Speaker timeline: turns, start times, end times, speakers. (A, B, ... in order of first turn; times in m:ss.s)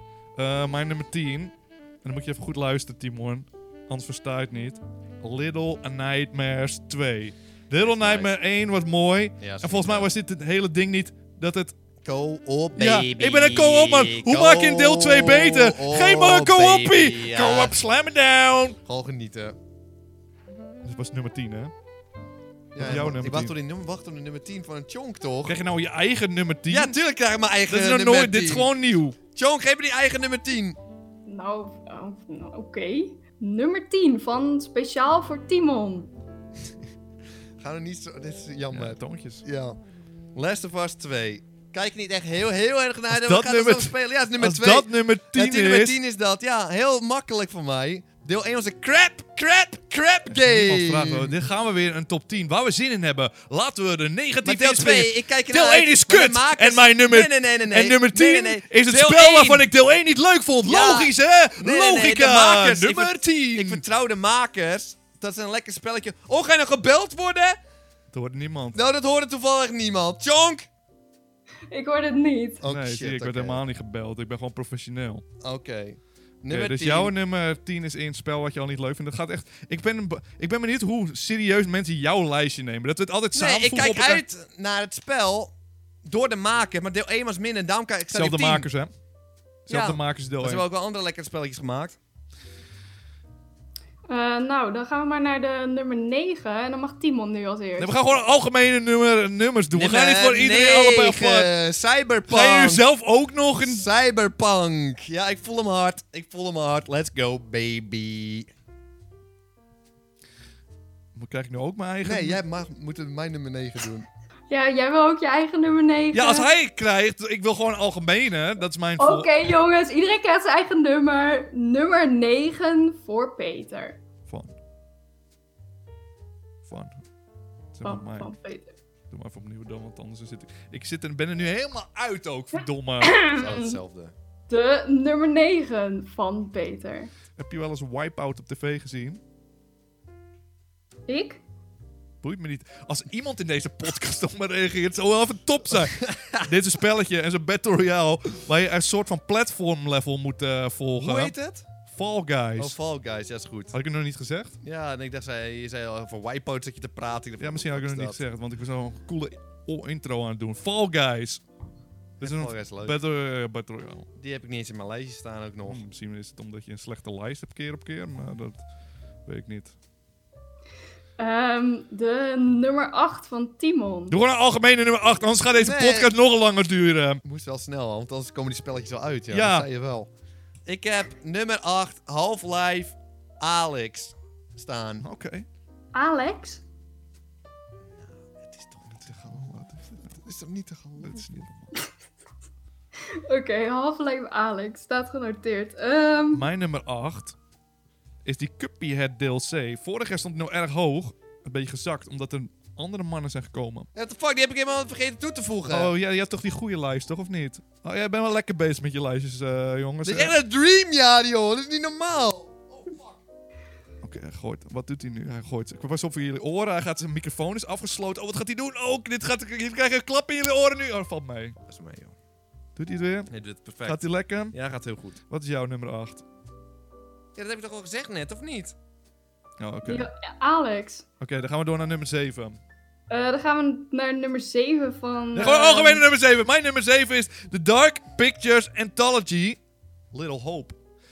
0:00.4-0:11.8 A
0:07.8-0:08.4 B
0:09.4-0:10.1 B
0:12.0-0:17.8 B
0:12.8-0:18.8 A
0:18.8-0:19.6 B
0:20.8-0:21.7 A
0:22.7-0:25.6 B
0:22.8-0:23.5 A
0:25.4-0:27.0 A
0:26.7-0:28.7 B
0:27.7-0:29.2 A
0:29.3-0:30.8 B
0:31.3-0:36.1 C
0:37.6-0:39.8 B
0:38.7-0:39.4 A
0:40.3-0:51.4 B
0:43.1-0:46.0 A
0:50.3-1:03.8 A
0:54.4-0:59.7 B
1:00.6-1:07.6 B
1:08.1-1:08.8 A
1:08.7-1:10.7 B
1:11.7-1:12.6 C
1:12.6-1:13.6 B
1:12.7-1:15.2 A
1:15.4-1:17.1 B
1:16.5-1:24.2 A
1:23.3-1:25.5 B
1:26.0-1:28.7 B
1:28.1-1:28.9 A
1:29.7-1:30.6 A
1:29.7-1:32.0 B
1:34.1-1:37.9 C
1:37.8-1:41.5 A
1:39.7-1:42.8 B
1:42.3-1:43.9 A
1:43.6-1:48.5 B
1:51.2-1:52.4 A
1:52.0-1:54.1 B
1:54.5-1:56.5 C
1:56.1-1:59.4 A
1:59.0-2:04.0 C
2:04.3-2:04.6 A
2:06.6-2:07.0 A
2:07.7-2:08.3 A
2:07.8-2:08.7 C
2:09.1-2:13.3 A
2:13.0-2:13.8 C
2:13.3-2:14.1 B
2:14.5-2:17.1 C
2:17.4-2:19.2 A
2:21.1-2:21.4 C
2:22.2-2:31.3 A
2:25.8-2:26.5 B
2:31.0-2:31.7 B
2:31.9-2:32.8 A
2:32.6-2:33.8 B
2:33.7-2:34.6 A
2:34.6-2:38.2 B
2:37.4-2:41.4 A
2:42.2-2:43.0 B
2:42.2-2:44.1 A
2:44.2-2:45.8 B
2:45.7-2:48.6 A
2:49.3-2:49.8 A
2:51.2-2:54.2 C
2:54.1-2:57.2 A
2:55.6-2:56.1 B
2:57.2-3:00.1 B
2:59.3-2:59.7 A
3:00.7-3:05.0 B
3:05.0-3:05.5 A
3:05.9-3:06.6 C
3:07.9-3:09.5 B
3:08.9-3:10.1 A
3:10.0-3:11.3 B
3:11.0-3:11.7 A
3:13.0-3:16.5 C
3:16.3-3:17.4 A
3:18.2-3:23.9 A
3:24.0-3:25.9 B
3:25.7-3:30.4 A
3:30.0-3:33.2 B
3:34.0-3:41.6 A
3:41.7-3:42.2 B
3:42.8-3:43.3 A
3:43.3-3:45.2 B
3:43.8-3:44.6 A
3:45.3-3:46.2 A
3:47.4-3:48.8 B
3:49.6-3:50.1 A
3:49.8-3:51.0 C
3:51.2-3:52.6 A
3:53.1-3:56.0 C
3:55.4-3:59.6 A
4:00.1-4:00.8 A